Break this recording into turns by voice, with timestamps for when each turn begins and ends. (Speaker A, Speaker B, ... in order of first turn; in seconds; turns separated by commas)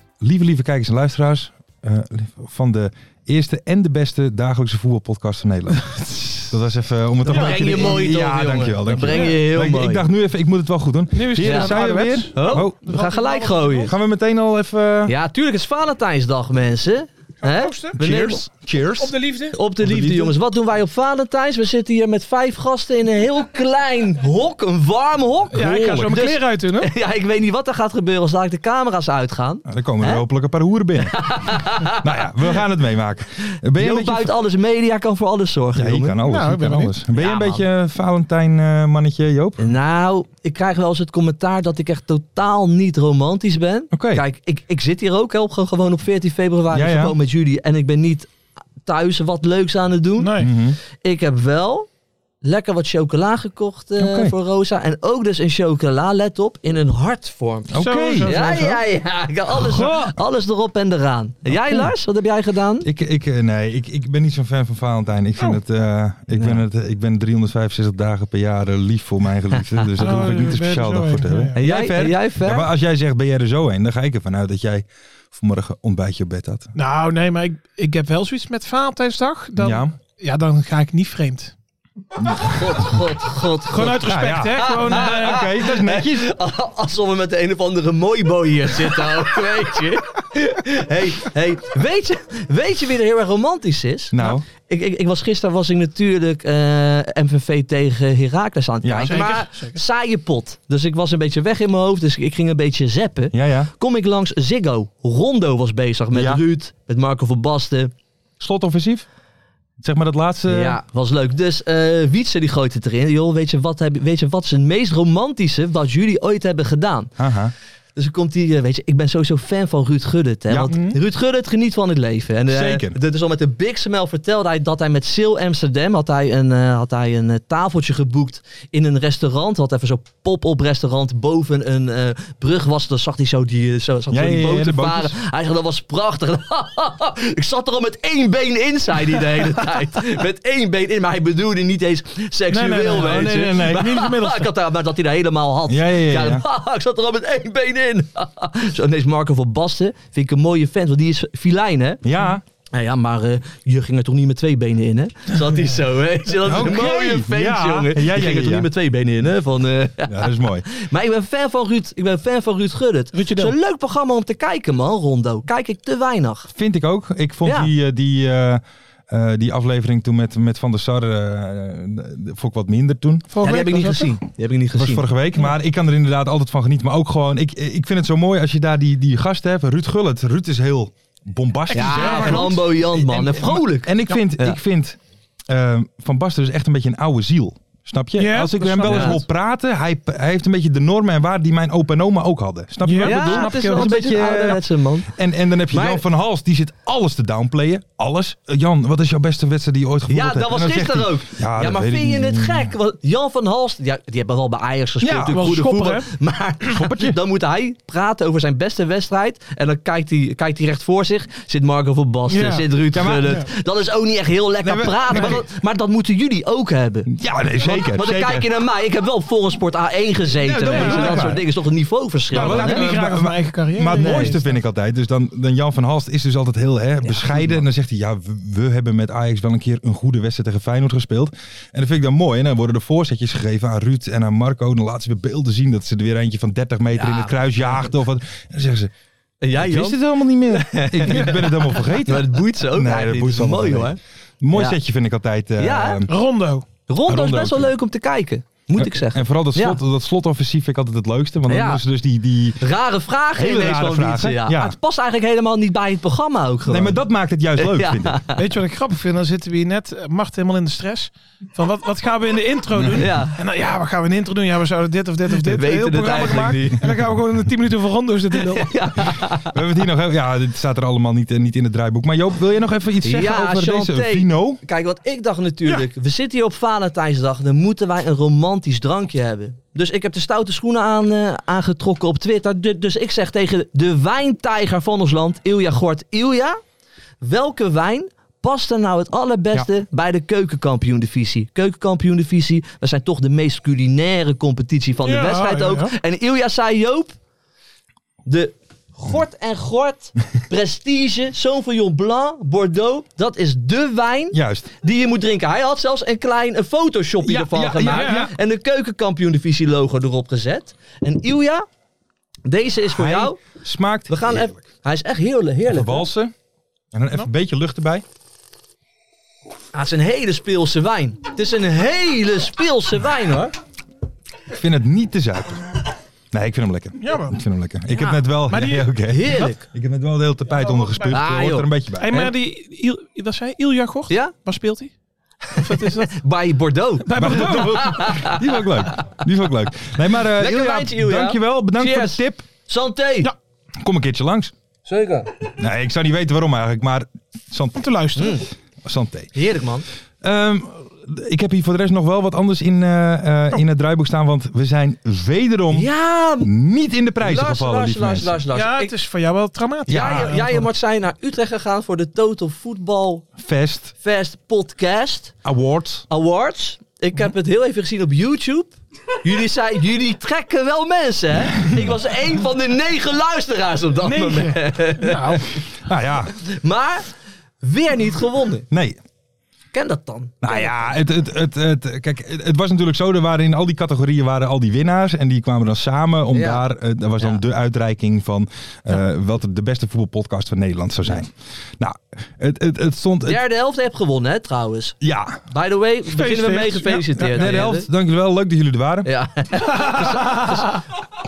Speaker A: 0.2-12.8, Speaker B: 7.3-10.1, Speaker C: 7.3-8.0, Speaker C: 9.0-9.4, Speaker C: 11.1-13.9, Speaker B: 11.4-13.9, Speaker A: 13.8-15.2, Speaker B: 15.1-18.4, Speaker C: 17.4-18.0, Speaker A: 17.9-19.2, Speaker C: 19.0-19.6, Speaker B: 19.5-30.2, Speaker A: 19.8-20.4, Speaker C: 25.5-26.9, Speaker A: 25.6-26.4, Speaker A: 29.7-34.4, Speaker B: 31.0-32.2, Speaker B: 33.8-36.2, Speaker A: 35.8-39.7, Speaker C: 36.2-36.9, Speaker B: 37.1-37.6, Speaker B: 39.6-48.3, Speaker A: 43.9-44.2, Speaker A: 46.7-47.1, Speaker B: 48.9-50.3, Speaker C: 50.2-50.5, Speaker A: 50.4-50.8, Speaker B: 51.0-51.9, Speaker B: 52.4-62.9, Speaker A: 54.0-54.4, Speaker A: 57.7-58.3, Speaker C: 57.8-58.8, Speaker A: 59.6-60.1, Speaker A: 61.5-61.9, Speaker A: 62.8-76.7, Speaker B: 66.4-66.6, Speaker B: 69.6-69.9, Speaker C: 70.0-71.6, Speaker B: 71.6-72.7, Speaker C: 76.8-81.5, Speaker A: 79.6-79.9, Speaker A: 82.2-82.5, Speaker B: 82.4-107.9, Speaker C: 83.7-85.5, Speaker A: 84.0-86.3, Speaker A: 94.1-94.5, Speaker A: 98.8-99.3, Speaker C: 99.1-99.8, Speaker A: 103.3-103.7, Speaker A: 106.1-106.4, Speaker A: 108.4-109.0, Speaker A: 109.8-110.8, Speaker B: 110.5-117.2, Speaker A: 117.2-117.5, Speaker B: 118.0-152.0, Speaker A: 120.5-120.7, Speaker C: 120.7-121.0, Speaker A: 122.5-123.0, Speaker A: 134.1-135.2, Speaker C: 142.5-144.5, Speaker A: 142.6-143.9, Speaker A: 145.7-146.4, Speaker A: 152.0-152.4, Speaker B: 152.7-166.5, Speaker A: 156.4-158.7, Speaker A: 160.0-160.7, Speaker C: 163.1-163.6, Speaker A: 166.5-173.3, Speaker B: 167.4-167.7, Speaker C: 173.3-174.2, Speaker B: 173.4-175.1, Speaker A: 174.7-185.0, Speaker C: 181.7-182.7, Speaker B: 181.7-184.6, Speaker A: 185.5-202.7, Speaker C: 188.2-189.2, Speaker B: 188.7-189.2, Speaker C: 192.8-194.0, Speaker B: 193.0-195.1, Speaker B: 195.7-196.0, Speaker B: 200.1-222.8, Speaker A: 205.0-205.4, Speaker C: 205.3-206.1, Speaker A: 206.7-207.2, Speaker C: 212.3-212.7, Speaker A: 212.9-213.4, Speaker C: 213.2-213.5, Speaker A: 214.6-215.4, Speaker C: 215.1-215.4, Speaker A: 217.1-218.5, Speaker A: 220.4-221.4, Speaker C: 220.6-221.4, Speaker C: 222.3-224.6, Speaker A: 222.3-238.9, Speaker B: 227.0-227.6, Speaker B: 236.9-237.9, Speaker B: 239.4-244.0, Speaker A: 239.5-246.1, Speaker C: 241.1-241.4, Speaker B: 245.6-246.0, Speaker C: 246.1-246.7, Speaker B: 246.9-249.8, Speaker A: 247.1-247.7, Speaker A: 248.8-252.7, Speaker B: 251.5-251.8, Speaker B: 252.6-257.0, Speaker A: 253.3-254.8, Speaker A: 256.7-258.2, Speaker B: 257.6-258.4, Speaker C: 258.4-268.7, Speaker B: 262.9-263.4, Speaker B: 265.4-266.8, Speaker B: 268.5-269.5, Speaker A: 269.5-274.6, Speaker B: 273.0-286.6, Speaker B: 287.2-297.2, Speaker C: 295.1-295.9, Speaker B: 298.3-311.7, Speaker A: 304.3-304.7, Speaker A: 307.2-308.3, Speaker C: 307.9-308.3, Speaker B: 312.4-313.4, Speaker A: 312.9-314.6, Speaker B: 314.1-316.1, Speaker A: 315.7-316.3, Speaker A: 316.9-318.0, Speaker B: 319.7-323.6, Speaker A: 324.5-332.3, Speaker C: 327.0-327.4, Speaker C: 327.9-329.5, Speaker B: 329.1-329.6, Speaker C: 330.5-331.2, Speaker B: 331.1-331.7, Speaker C: 332.0-334.9, Speaker B: 334.1-334.3, Speaker B: 335.5-339.0, Speaker C: 335.6-336.1, Speaker C: 337.0-338.0, Speaker A: 337.1-342.4, Speaker B: 340.4-343.3, Speaker A: 343.8-344.5, Speaker B: 344.9-345.3, Speaker A: 345.6-347.8, Speaker C: 347.8-348.4, Speaker B: 348.1-348.5, Speaker A: 348.8-349.4, Speaker B: 349.4-349.9, Speaker A: 350.2-355.9, Speaker B: 355.7-356.5, Speaker A: 356.4-358.4, Speaker B: 357.2-358.9, Speaker C: 358.5-360.7, Speaker A: 359.9-360.4, Speaker B: 359.9-363.2, Speaker A: 363.4-363.9, Speaker B: 364.0-365.4, Speaker A: 365.4-366.1, Speaker B: 366.1-375.4, Speaker C: 374.0-375.5, Speaker A: 375.8-376.3, Speaker B: 376.3-377.1, Speaker B: 377.6-378.7, Speaker A: 378.7-379.0, Speaker B: 379.7-380.9, Speaker A: 380.4-393.4, Speaker B: 386.3-386.7, Speaker B: 393.3-395.0, Speaker A: 395.0-395.4, Speaker B: 395.5-397.9, Speaker C: 396.1-397.5, Speaker A: 397.0-399.1, Speaker B: 399.0-400.8, Speaker C: 399.7-400.6